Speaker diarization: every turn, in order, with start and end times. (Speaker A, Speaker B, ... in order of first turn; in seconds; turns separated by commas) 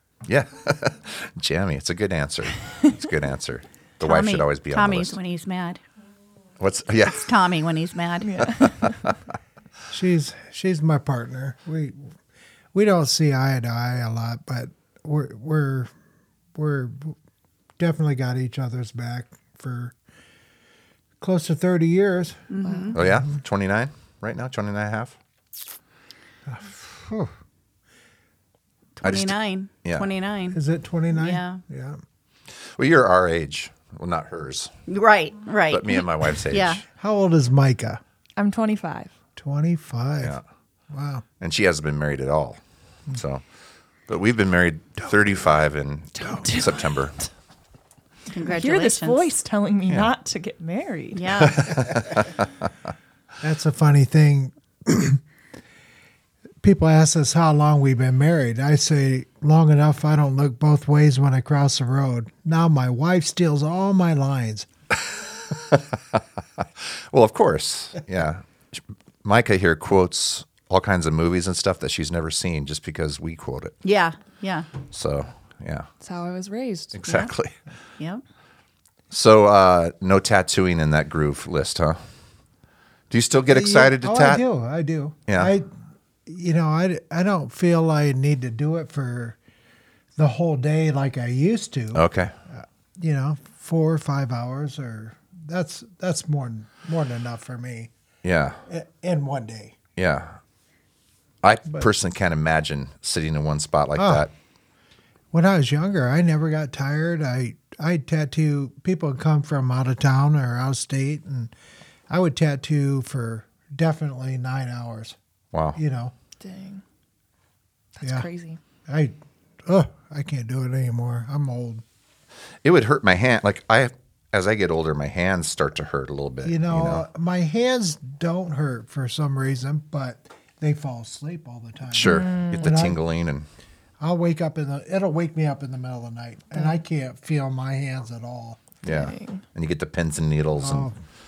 Speaker A: 0.2-5.2, Speaker B: 4.0-5.8, Speaker A: 6.6-7.3, Speaker B: 7.2-8.3, Speaker C: 8.2-9.0, Speaker A: 8.6-8.9, Speaker D: 9.9-12.1, Speaker D: 12.7-15.9, Speaker D: 16.5-17.1, Speaker D: 17.8-19.9, Speaker D: 21.2-23.2, Speaker B: 22.5-23.0, Speaker C: 22.6-22.9, Speaker A: 22.9-25.2, Speaker D: 26.4-27.3, Speaker B: 29.0-30.6, Speaker A: 29.0-30.1, Speaker D: 30.5-32.0, Speaker B: 31.1-31.6, Speaker A: 32.8-34.7, Speaker B: 34.9-36.8, Speaker A: 35.7-36.8, Speaker D: 37.0-38.0, Speaker C: 38.4-39.1, Speaker D: 39.4-40.4, Speaker D: 40.9-41.2, Speaker A: 41.4-43.4, Speaker A: 44.1-47.2, Speaker C: 46.2-47.3, Speaker B: 48.3-49.3, Speaker C: 48.5-51.2, Speaker B: 51.1-51.8, Speaker A: 51.4-52.5, Speaker D: 53.4-55.2, Speaker D: 56.6-64.7, Speaker A: 65.5-73.8, Speaker B: 73.8-74.7, Speaker A: 74.9-75.9, Speaker C: 76.0-77.0, Speaker A: 76.9-77.5, Speaker B: 77.0-77.3, Speaker A: 79.1-82.0, Speaker A: 83.1-84.4, Speaker D: 83.5-85.7, Speaker D: 86.2-89.4, Speaker D: 90.2-97.9, Speaker A: 91.9-92.3, Speaker A: 98.2-98.6, Speaker D: 98.7-99.8, Speaker A: 100.0-100.4, Speaker A: 101.4-104.3, Speaker D: 103.9-104.3, Speaker D: 105.3-111.5, Speaker D: 112.1-115.2, Speaker A: 115.5-115.8, Speaker D: 115.8-116.1, Speaker C: 116.4-116.8, Speaker C: 117.9-118.6, Speaker D: 118.0-118.3, Speaker D: 118.9-121.8, Speaker A: 122.6-127.0, Speaker D: 126.4-133.0, Speaker A: 131.9-133.5, Speaker C: 132.0-132.8, Speaker D: 134.0-138.6, Speaker C: 136.5-136.8, Speaker C: 138.8-139.4, Speaker A: 138.8-140.9, Speaker D: 140.6-141.0